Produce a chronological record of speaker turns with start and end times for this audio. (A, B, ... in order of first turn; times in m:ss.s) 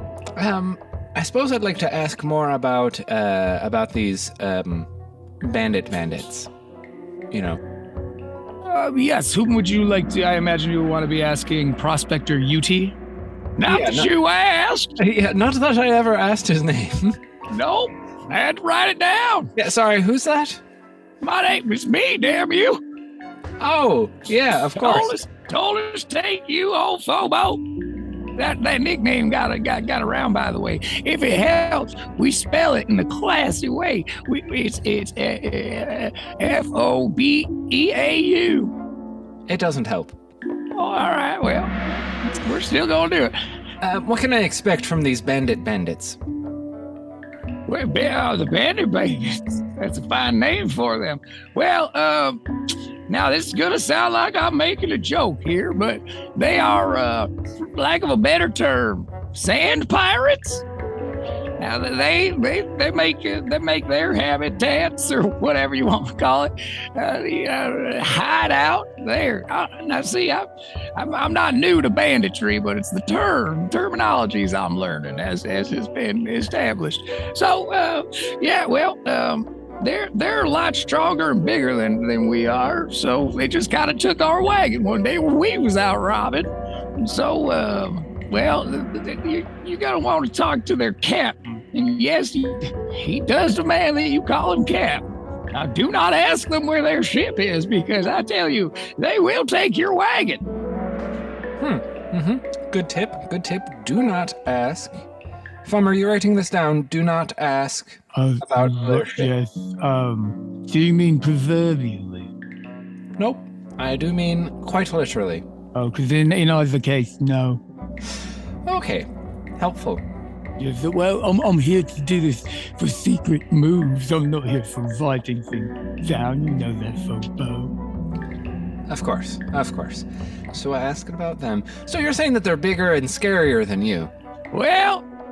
0:00.4-0:04.9 A
0:05.4-0:06.5 A
0:07.3-0:07.6 A
0:08.6-0:13.0 B
0:13.6-0:14.9 B
0:13.7-0:14.1 A
0:15.0-0:17.2 A
0:17.5-0:19.5 B
0:19.6-0:20.6 A
0:21.2-0:22.8 B
0:23.6-0:25.1 A
0:24.8-0:27.6 B
0:28.4-0:38.7 B
0:39.5-0:40.2 A
0:40.7-0:41.8 B
0:42.4-0:43.4 B
0:43.8-0:46.2 A
0:47.7-0:52.4 B
0:53.1-1:00.6 B
1:01.6-1:40.4 B
1:41.6-1:45.0 A
1:45.6-1:49.3 A
1:48.1-1:52.3 C
1:53.2-1:55.4 A
1:55.8-1:57.6 C
1:58.7-2:00.0 A
2:00.6-2:07.7 C
2:08.9-2:14.1 A
2:14.5-2:15.0 B